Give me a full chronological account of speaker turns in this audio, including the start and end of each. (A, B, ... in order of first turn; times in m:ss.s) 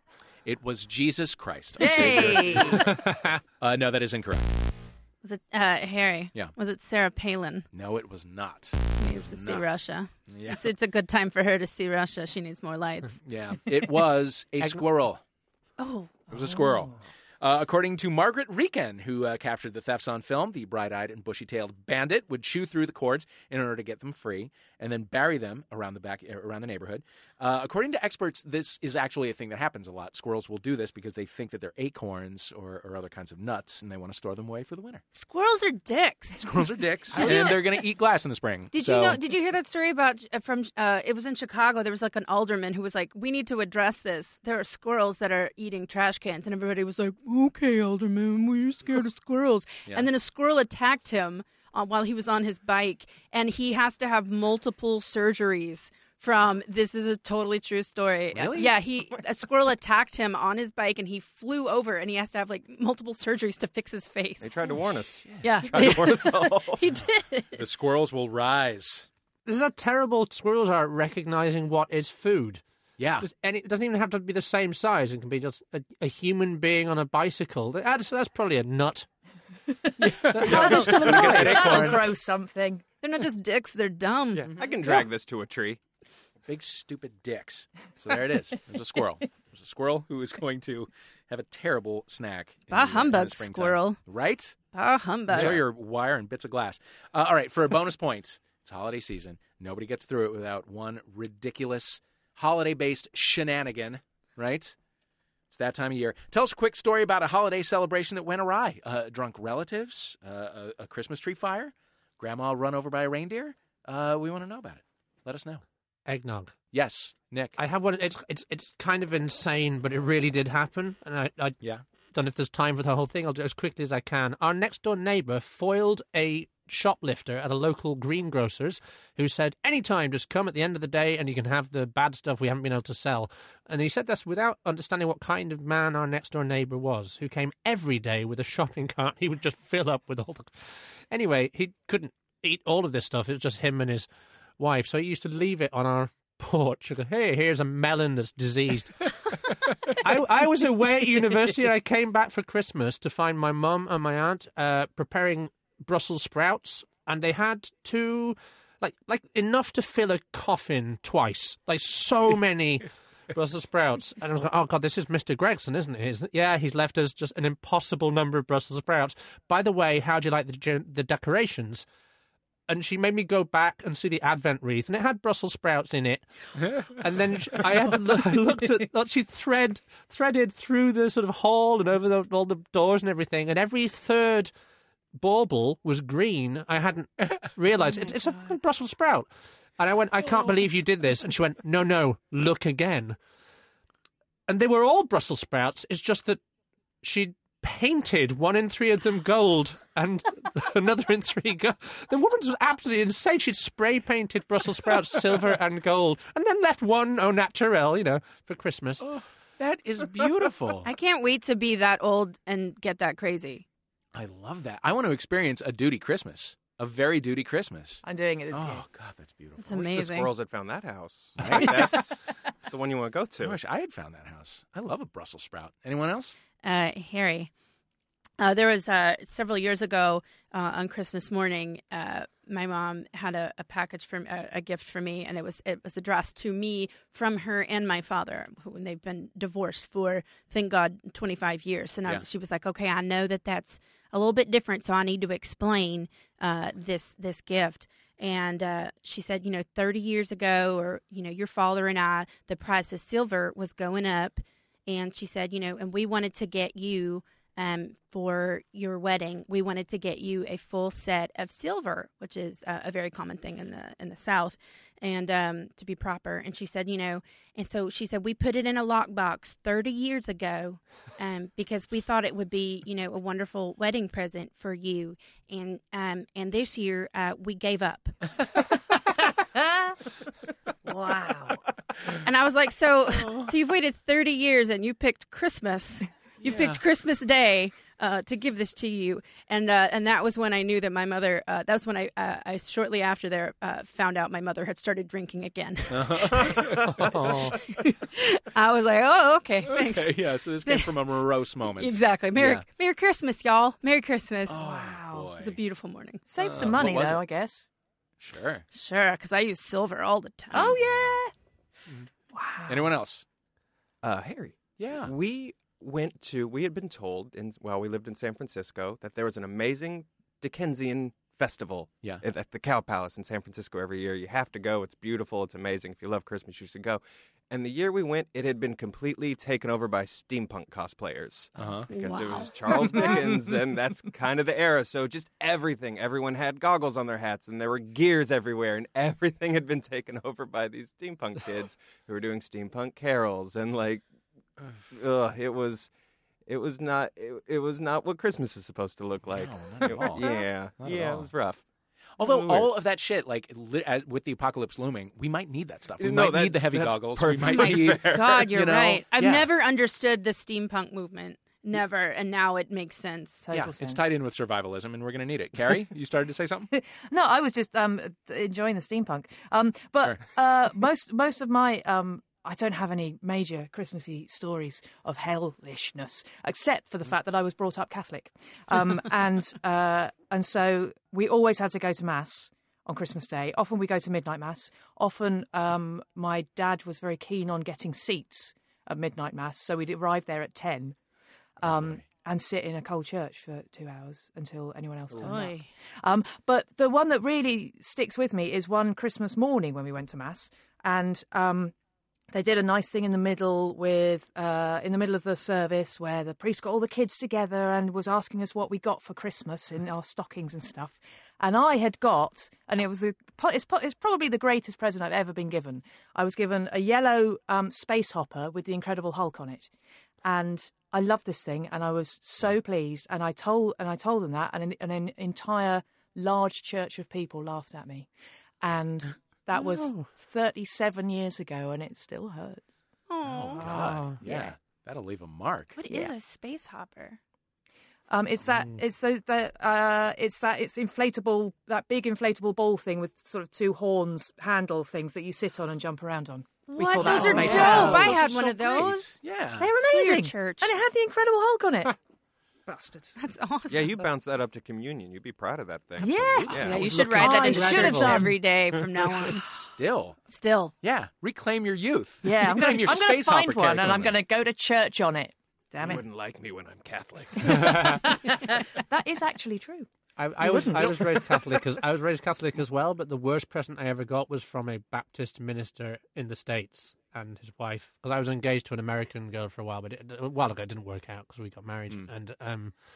0:00.4-0:03.0 A
0:01.8-0:02.7 B
0:01.8-0:02.8 C
0:03.6-0:04.6 A
0:05.2-0:07.7 B
0:07.7-0:10.6 A
0:09.0-0:13.2 B
0:13.2-0:15.2 A
0:15.8-0:16.1 B
0:16.3-0:35.0 A
0:16.4-0:16.9 C
0:35.1-0:36.6 B
0:36.4-0:39.2 A
0:37.1-0:37.8 B
0:38.7-1:04.5 B
0:58.3-0:58.7 A
1:04.4-1:06.8 D
1:05.2-1:05.9 A
1:05.4-1:07.6 B
1:07.5-1:09.1 A
1:09.4-1:12.6 E
1:13.0-1:13.3 A
1:13.2-1:19.1 E
1:19.9-1:22.8 C
1:20.0-1:22.1 A
1:20.4-1:20.8 E
1:23.0-1:24.5 B
1:24.3-1:25.8 D
1:26.5-1:34.6 A
1:32.7-1:34.0 B
1:34.7-1:35.6 B
1:35.3-1:44.7 A
1:35.3-1:35.6 D
1:45.5-1:55.6 A
1:56.1-1:56.5 E
1:56.7-1:57.6 A
1:57.6-2:01.6 E
2:02.1-2:20.5 E
2:21.1-2:51.8 E
2:52.7-3:04.5 E
3:05.2-3:13.2 E
3:14.5-3:16.4 E
3:17.0-3:29.0 E
3:29.0-3:30.9 A
3:30.8-3:33.6 B
3:34.1-3:39.8 A
3:38.0-3:38.8 C
3:39.6-3:40.3 B
3:39.7-3:43.6 D
3:41.4-3:42.1 A
3:43.4-3:46.3 A
3:46.6-3:47.5 B
3:48.4-4:38.3 B
4:39.5-4:39.9 C
4:40.8-4:41.6 C
4:42.2-4:56.8 B
4:46.4-4:46.8 A
4:55.9-4:57.1 A
4:56.9-4:57.6 E
4:57.6-5:00.9 B
4:59.7-5:02.6 A
5:01.7-5:04.7 B
5:04.5-5:05.6 A
5:04.6-5:05.3 C
5:05.4-5:06.2 B
5:06.2-5:07.7 C
5:06.4-5:07.2 A
5:08.2-5:08.6 A
5:08.7-5:10.8 B
5:10.5-5:11.3 C
5:10.6-5:11.2 A
5:12.3-5:12.9 C
5:12.7-5:13.2 A
5:14.0-5:44.0 D
5:14.8-5:15.1 A
5:31.6-5:31.9 A
5:31.9-5:33.2 B
5:44.9-5:45.9 D
5:46.4-5:51.6 D
5:49.3-5:51.3 A
5:52.2-5:59.5 A
5:52.2-5:52.7 D
5:56.0-5:58.5 D
5:57.4-6:03.4 B
6:03.4-6:04.0 C
6:03.5-6:06.7 A
6:06.7-6:31.0 C
6:31.6-6:41.7 C
6:31.6-6:32.0 A
6:35.2-6:35.7 B
6:42.3-6:59.7 C
7:00.2-7:08.1 C
7:08.6-7:12.7 C
7:09.5-7:10.1 E
7:13.1-7:13.6 B
7:13.2-7:15.8 A
7:13.6-7:14.2 E
7:15.8-7:17.2 B
7:18.1-7:29.0 C
7:26.7-7:30.7 B
7:27.1-7:29.7 A
7:27.4-7:27.8 E
7:29.6-7:31.9 C
7:32.6-7:33.1 C
7:33.2-7:34.0 B
7:33.7-7:36.9 D
7:36.0-7:38.4 C
7:36.6-7:39.4 B
7:36.7-7:38.4 E
7:39.4-7:40.2 A
7:40.3-7:40.7 B
7:40.8-7:44.2 A
7:42.2-7:46.0 C
7:45.8-7:48.2 D
7:47.4-7:49.9 C
7:50.2-8:02.8 E
7:50.4-7:51.1 C